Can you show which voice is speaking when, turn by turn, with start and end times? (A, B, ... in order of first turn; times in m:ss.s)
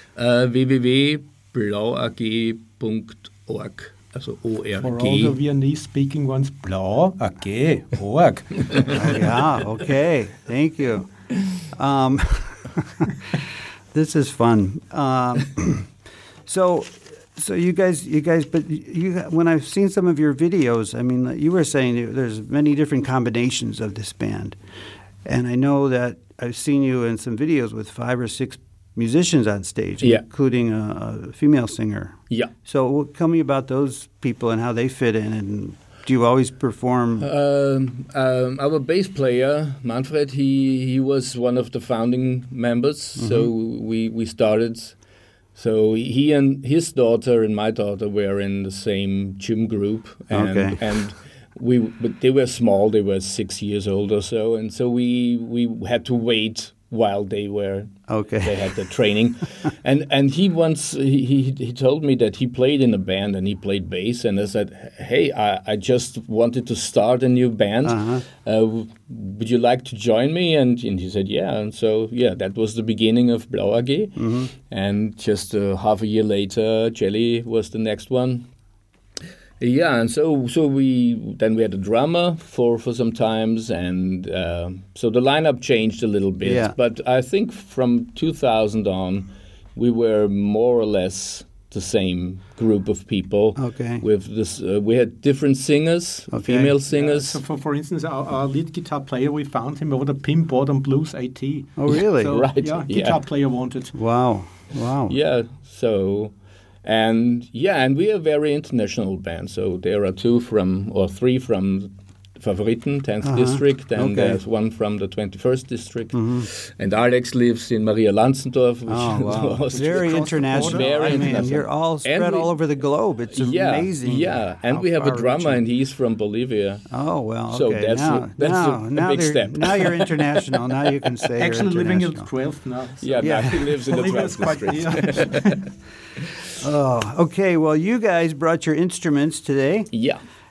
0:00.2-0:05.4 A
0:04.8-0:09.1 B
0:08.9-0:15.9 C
0:16.4-0:24.6 C
0:25.2-0:37.3 C
0:37.2-0:45.0 A
0:43.2-0:43.5 C
0:45.5-1:18.5 A
0:50.3-0:50.8 C
0:58.1-0:58.7 C
1:07.8-1:08.2 C
1:14.2-1:14.5 C
1:19.6-1:37.4 A
1:26.4-1:26.7 C
1:33.6-1:34.0 C
1:36.3-1:36.7 C
1:36.9-1:43.9 B
1:41.8-1:42.4 C
1:42.2-1:43.2 A
1:43.9-1:45.1 C
1:45.1-2:02.5 A
1:53.2-1:54.4 C
1:56.1-1:56.5 C
1:58.9-2:05.6 C
1:59.7-2:01.5 B
2:03.3-2:06.8 A
2:06.9-2:12.3 C
2:07.5-2:10.3 A
2:11.4-2:15.6 B
2:13.0-2:15.6 A
2:13.2-2:13.9 C
2:16.6-2:19.9 C
2:19.9-2:20.2 A